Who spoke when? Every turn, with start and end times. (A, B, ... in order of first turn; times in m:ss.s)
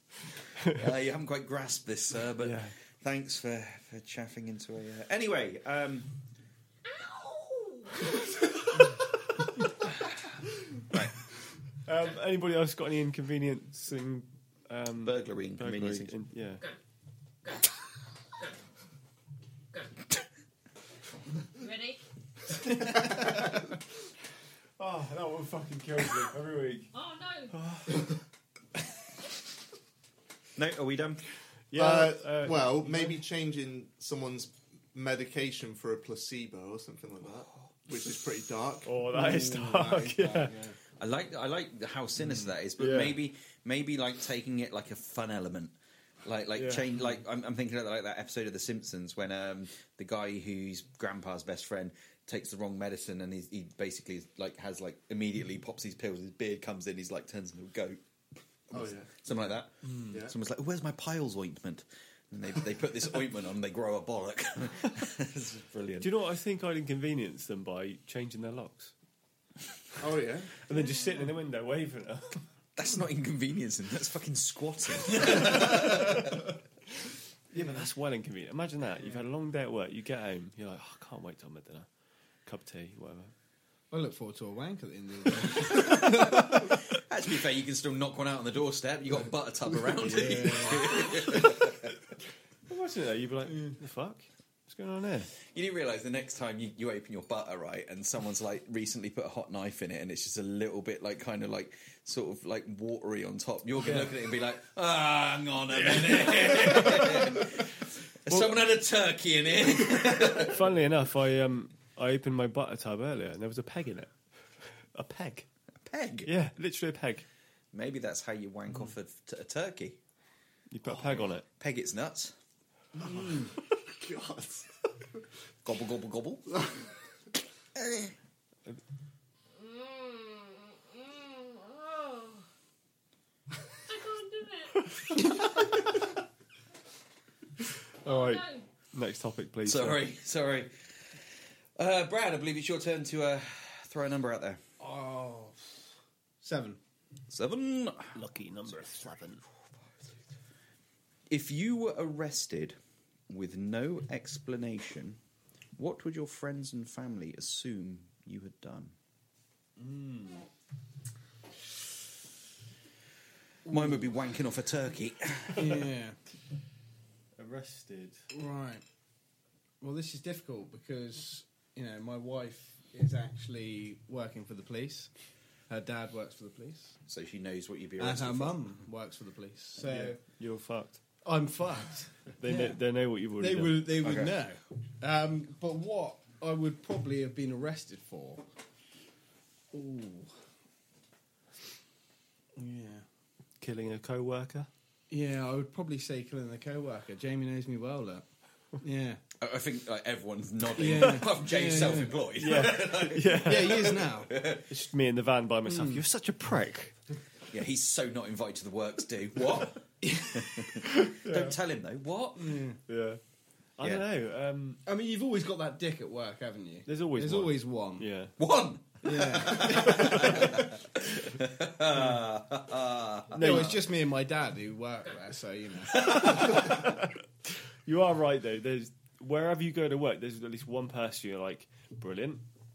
0:00.6-0:06.1 A
0:02.4-0:02.7 B
0:06.9-0:08.1 C
0:11.8-0:16.6 B
0:15.0-0:16.1 A
0:21.5-0:22.0 C
0:24.8-0:26.9 B
0:26.9-0:27.5 C
0:27.5-0:28.1 B
0:30.6-0:31.2 A
0:31.7-0:33.2 B
0:31.7-0:38.9 D
0:38.8-0:40.5 B
0:39.1-0:40.8 E
0:41.0-0:58.0 A
0:42.8-0:43.2 B
0:46.6-0:46.8 B
0:58.7-0:59.1 D
0:58.7-1:06.1 A
1:00.1-1:00.3 D
1:06.0-1:08.9 B
1:10.0-1:10.5 D
1:10.6-1:12.4 B
1:12.8-1:16.4 A
1:15.3-1:15.8 B
1:17.5-1:21.9 B
1:22.4-1:23.3 B
1:23.9-1:26.8 E
1:25.6-1:31.9 A
1:29.9-1:31.6 E
1:32.7-1:35.3 B
1:35.4-1:50.6 A
1:43.8-1:44.1 B
1:45.9-1:47.5 B
1:50.2-1:55.5 B
1:55.8-1:56.3 A
1:56.2-1:57.2 B
1:57.7-2:00.0 A
2:00.7-2:01.4 B
2:01.5-2:02.3 A
2:02.9-2:03.5 E
2:03.0-2:04.8 D
2:05.6-2:06.5 A
2:07.8-2:08.1 A
2:09.6-2:12.3 C
2:13.9-2:15.5 C
2:18.0-2:20.0 B
2:18.0-2:18.7 C
2:19.6-2:24.6 A
2:24.8-2:25.8 E
2:26.4-2:26.8 E
2:27.3-2:28.2 A
2:28.1-2:29.4 B
2:31.3-2:32.8 A
2:33.3-2:35.2 A
2:35.8-2:38.9 A
2:39.8-2:40.4 E
2:43.6-2:44.0 E
2:43.7-2:45.8 A
2:45.6-2:46.2 E
2:47.4-2:48.2 B
2:48.3-2:48.8 E
2:49.8-2:55.1 E
2:55.7-2:57.0 E
2:57.1-2:58.6 A
2:58.0-3:00.2 E
2:59.8-3:01.0 B
3:01.2-3:02.8 E
3:02.4-3:04.0 B
3:03.4-3:08.4 E
3:04.0-3:04.4 A
3:09.7-3:10.3 E
3:12.6-3:13.0 E
3:13.6-3:14.7 B
3:15.1-3:19.2 E
3:19.4-3:24.7 A
3:20.7-3:24.3 E
3:22.4-3:24.1 B
3:24.7-3:26.9 B
3:25.6-3:26.0 E
3:27.5-3:32.6 A
3:30.0-3:30.5 E
3:31.0-3:31.5 B
3:32.4-3:32.8 E
3:32.9-3:33.2 B
3:33.8-3:34.8 B
3:34.8-3:38.1 E
3:36.9-3:38.3 B
3:38.4-3:43.7 A
3:39.0-3:40.7 E
3:39.9-3:40.3 B
3:43.3-3:43.8 B
3:43.3-3:46.7 E
3:45.9-3:47.1 B
3:47.8-3:52.4 B